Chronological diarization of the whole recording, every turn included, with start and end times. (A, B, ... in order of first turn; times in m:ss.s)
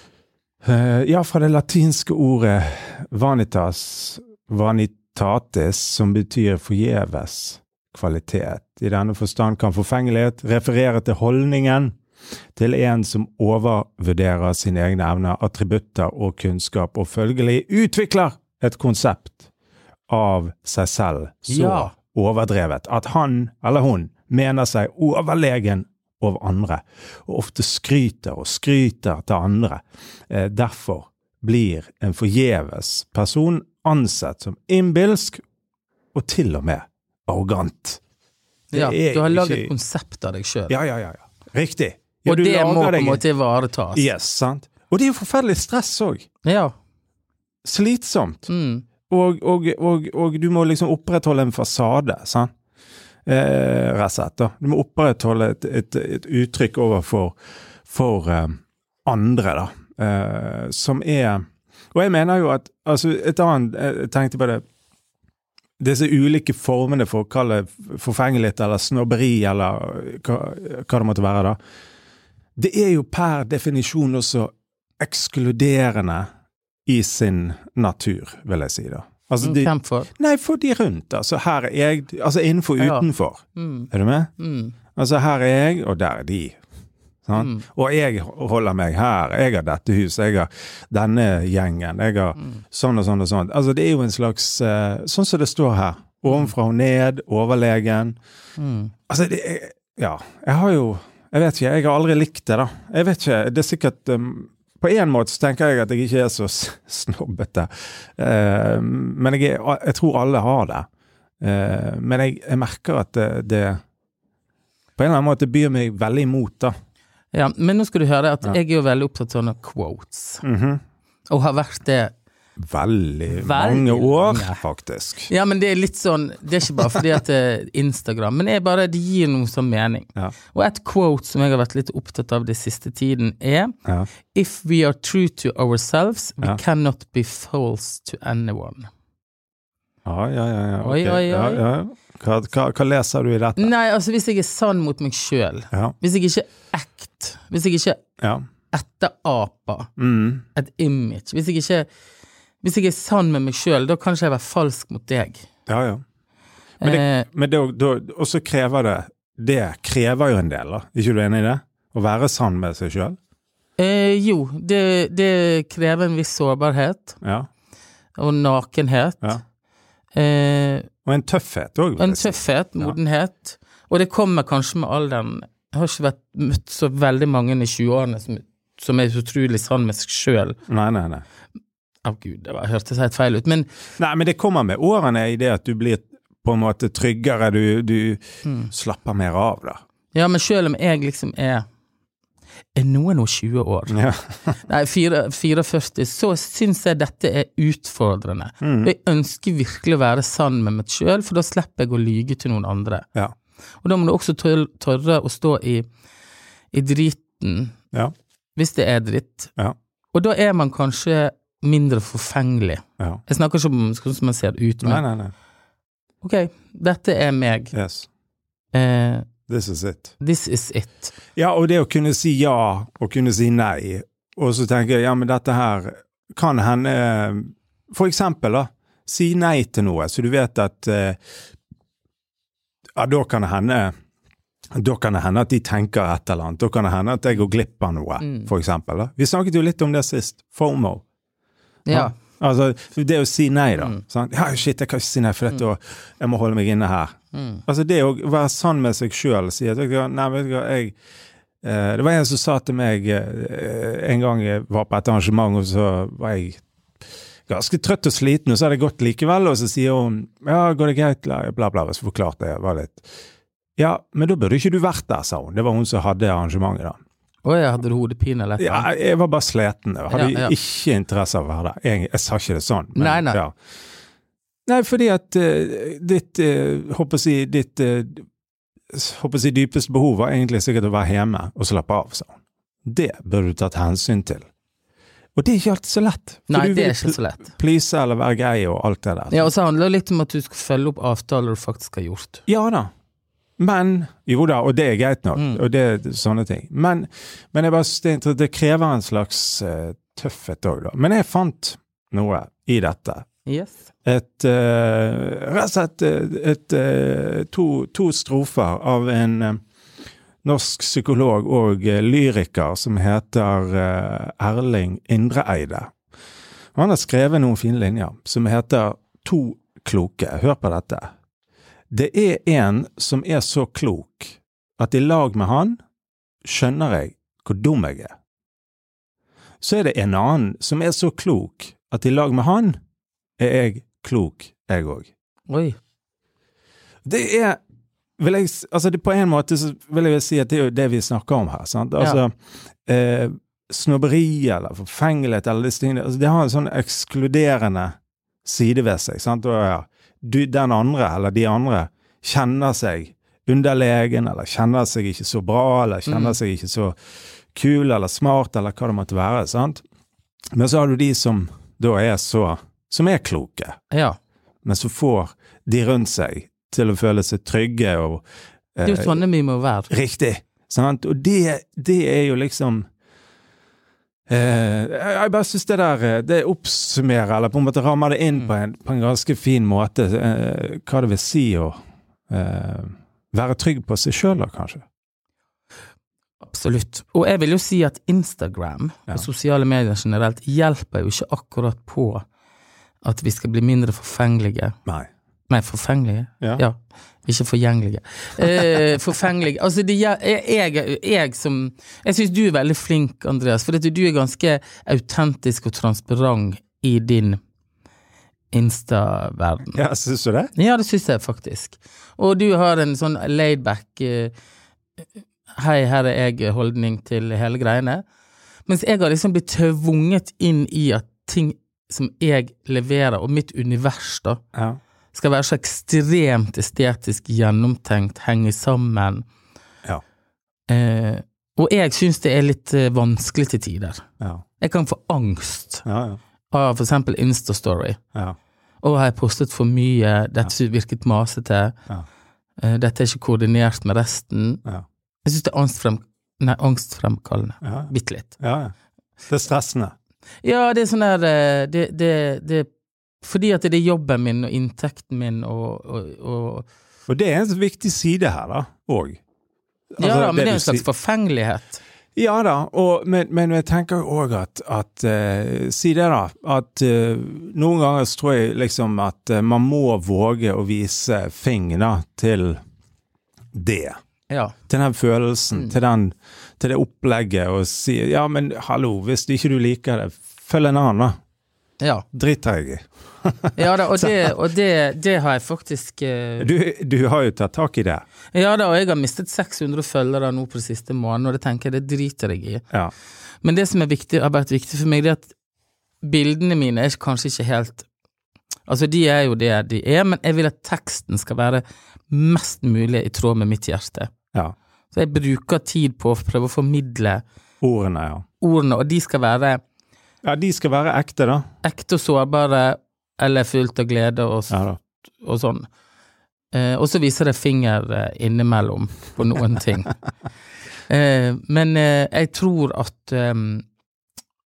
0:00.6-0:12.0 A
0:12.6-0:19.5 A
0:20.1-0:35.4 A
0:21.5-0:21.9 B
0:36.1-0:38.0 A
0:38.7-0:40.7 B
0:38.7-0:39.7 A
0:40.7-0:43.2 A
0:42.2-0:44.0 B
0:43.9-0:46.3 A
0:46.4-0:46.7 B
0:47.6-0:48.5 A
0:48.5-0:48.8 B
0:49.1-0:52.5 A
0:53.2-0:57.4 A
0:57.9-1:04.6 A
1:05.8-1:11.6 A
1:12.6-1:16.3 A
1:16.8-1:24.3 A
1:19.4-1:20.1 B
1:22.8-1:24.8 B
1:25.0-1:26.6 A
1:27.2-1:38.2 A
1:27.4-1:27.6 B
1:38.6-1:38.9 B
1:39.1-1:50.8 A
1:51.4-1:53.8 A
1:55.0-1:56.7 A
1:57.3-2:00.4 B
2:00.4-2:00.8 A
2:01.3-2:02.1 B
2:02.6-2:05.3 A
2:03.3-2:04.6 B
2:05.3-2:13.7 B
2:14.3-2:18.9 B
2:20.0-2:23.7 A
2:20.8-2:21.6 B
2:23.6-2:28.0 B
2:28.2-2:28.4 A
2:28.7-2:29.9 B
2:30.0-2:30.4 A
2:30.5-2:31.9 B
2:32.6-2:35.4 B
2:35.7-2:36.0 A
2:36.8-2:37.3 B
2:36.8-2:43.2 A
2:43.8-2:47.2 B
2:47.2-2:47.5 A
2:48.2-2:49.4 B
2:50.1-2:50.9 B
2:51.0-2:53.0 A
2:52.0-3:00.6 B
3:00.7-3:01.2 A
3:02.0-3:03.7 B
3:04.0-3:09.8 A
3:08.4-3:08.7 B
3:10.1-3:11.6 B
3:12.7-3:14.0 B
3:13.9-3:14.5 A
3:14.6-3:23.1 B
3:18.6-3:18.9 A
3:23.8-3:25.8 B
3:26.7-3:27.8 B
3:28.6-3:29.5 B
3:30.1-3:35.0 B
3:34.8-3:35.3 A
3:36.2-3:37.7 B
3:37.7-3:38.1 A
3:38.7-3:39.3 B
3:39.5-3:40.1 A
3:40.2-3:41.1 B
3:41.4-3:51.2 A
3:53.0-3:53.9 A
3:54.7-4:01.0 A
3:58.2-3:58.5 B
4:01.8-4:02.2 B
4:01.9-4:10.9 A
4:03.8-4:04.0 B
4:07.3-4:07.6 B
4:11.6-4:16.6 A
4:17.5-4:23.1 A
4:23.8-4:27.0 A
4:27.4-4:28.9 B
4:28.6-4:33.5 A
4:30.1-4:30.5 B
4:33.0-4:33.4 B
4:34.7-4:38.2 A
4:38.9-4:42.3 A
4:42.8-4:44.5 A
4:45.4-4:49.5 A
4:46.5-4:47.5 B
4:49.3-4:52.4 B
4:52.5-4:52.9 A
4:53.6-5:03.3 A
4:55.4-4:55.6 B
5:03.4-5:03.8 B
5:04.0-5:09.6 A
5:10.4-5:15.9 A
5:16.7-5:21.1 A
5:21.9-5:25.8 A
5:26.4-5:28.1 A
5:29.6-5:32.8 A
5:33.4-5:35.1 A
5:35.5-5:35.8 B
5:37.0-5:37.6 A
5:38.2-5:42.3 A
5:42.8-5:56.9 A
5:56.1-5:56.4 B
5:57.5-5:59.8 A
6:00.5-6:03.8 A
6:03.9-6:04.2 B
6:04.6-6:08.2 A
6:08.7-6:09.2 A
6:08.8-6:09.9 B
6:09.9-6:12.8 A
6:14.3-6:21.8 A
6:22.3-6:24.8 A
6:26.4-6:32.2 B
6:33.0-6:34.8 B
6:35.5-6:47.4 B
6:48.5-6:49.8 B
6:49.7-6:50.5 A
6:50.5-6:54.3 B
6:55.5-6:58.0 B
6:58.7-7:04.4 B
7:05.1-7:09.2 B
7:10.7-7:14.0 B
7:14.6-7:15.8 B
7:15.8-7:16.2 A
7:16.5-7:18.0 B
7:18.8-7:21.8 B
7:22.6-7:24.6 B
7:25.2-7:28.3 B
7:27.6-7:28.7 A
7:29.3-7:29.9 A
7:30.4-7:32.7 B
7:33.2-7:36.7 B
7:37.1-7:39.2 A
7:40.0-7:40.8 A
7:40.0-7:41.8 B
7:42.2-7:52.6 A
7:53.5-7:54.0 A
7:54.3-7:54.5 B
7:54.7-8:01.2 A
8:01.8-8:02.0 B
8:02.1-8:04.3 A
8:03.6-8:06.5 B
8:06.4-8:08.0 A
8:08.3-8:12.6 B
8:13.4-8:15.3 B
8:16.0-8:17.9 B
8:18.7-8:24.1 B
8:24.9-8:27.2 B
8:27.6-8:28.2 A
8:28.4-8:29.6 B
8:30.2-8:31.4 A
8:31.6-8:34.6 B
8:34.5-8:34.8 A
8:35.2-8:35.7 B
8:36.5-8:40.0 B
8:40.9-8:43.6 B